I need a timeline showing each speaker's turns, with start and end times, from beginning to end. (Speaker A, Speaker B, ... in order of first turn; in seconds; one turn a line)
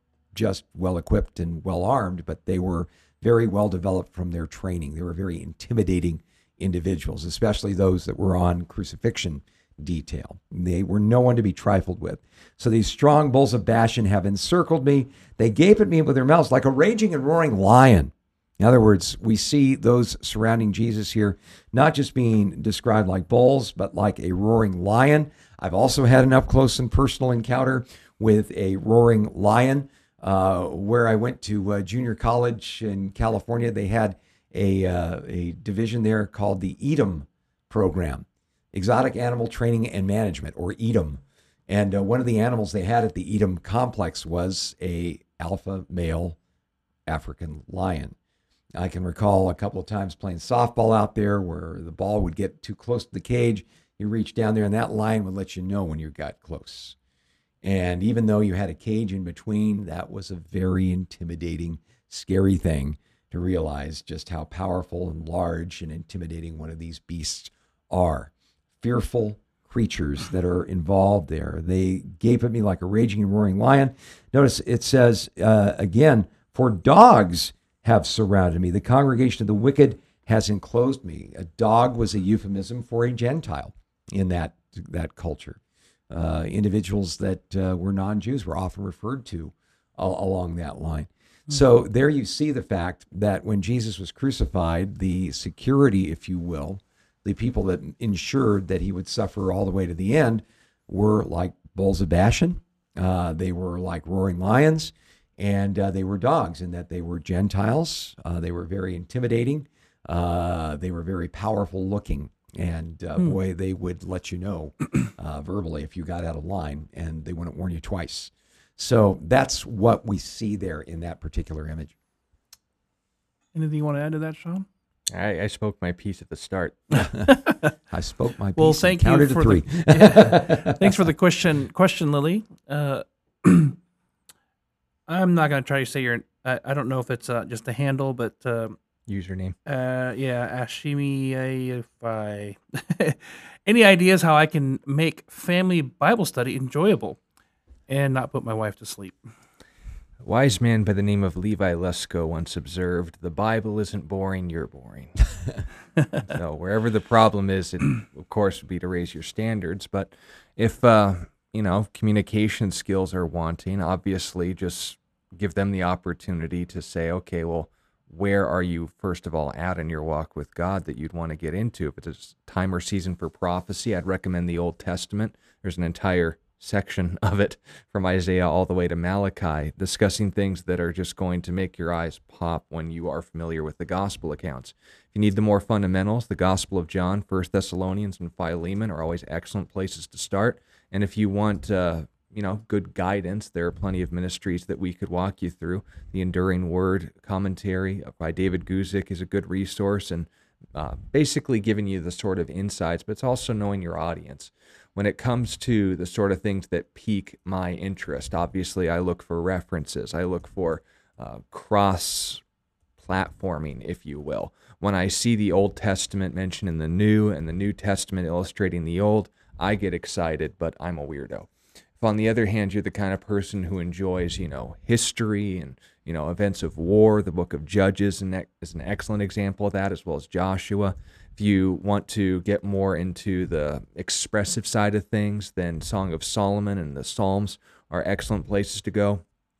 Speaker A: 0.3-46.4
Speaker A: 47.1-48.1
Speaker A: 48.8-57.0
Speaker A: 57.6-85.6
Speaker A: 86.1-121.9
Speaker B: 123.5-124.7
Speaker C: 125.1-127.0
Speaker B: 127.2-127.7
Speaker A: 127.9-130.9
Speaker B: 128.6-133.8
Speaker B: 135.1-138.8
Speaker C: 139.1-139.6
Speaker B: 139.7-147.2
Speaker B: 147.9-149.2
Speaker C: 150.2-155.3
Speaker C: 156.2-212.4
Speaker C: 213.0-221.5
Speaker C: 222.0-239.2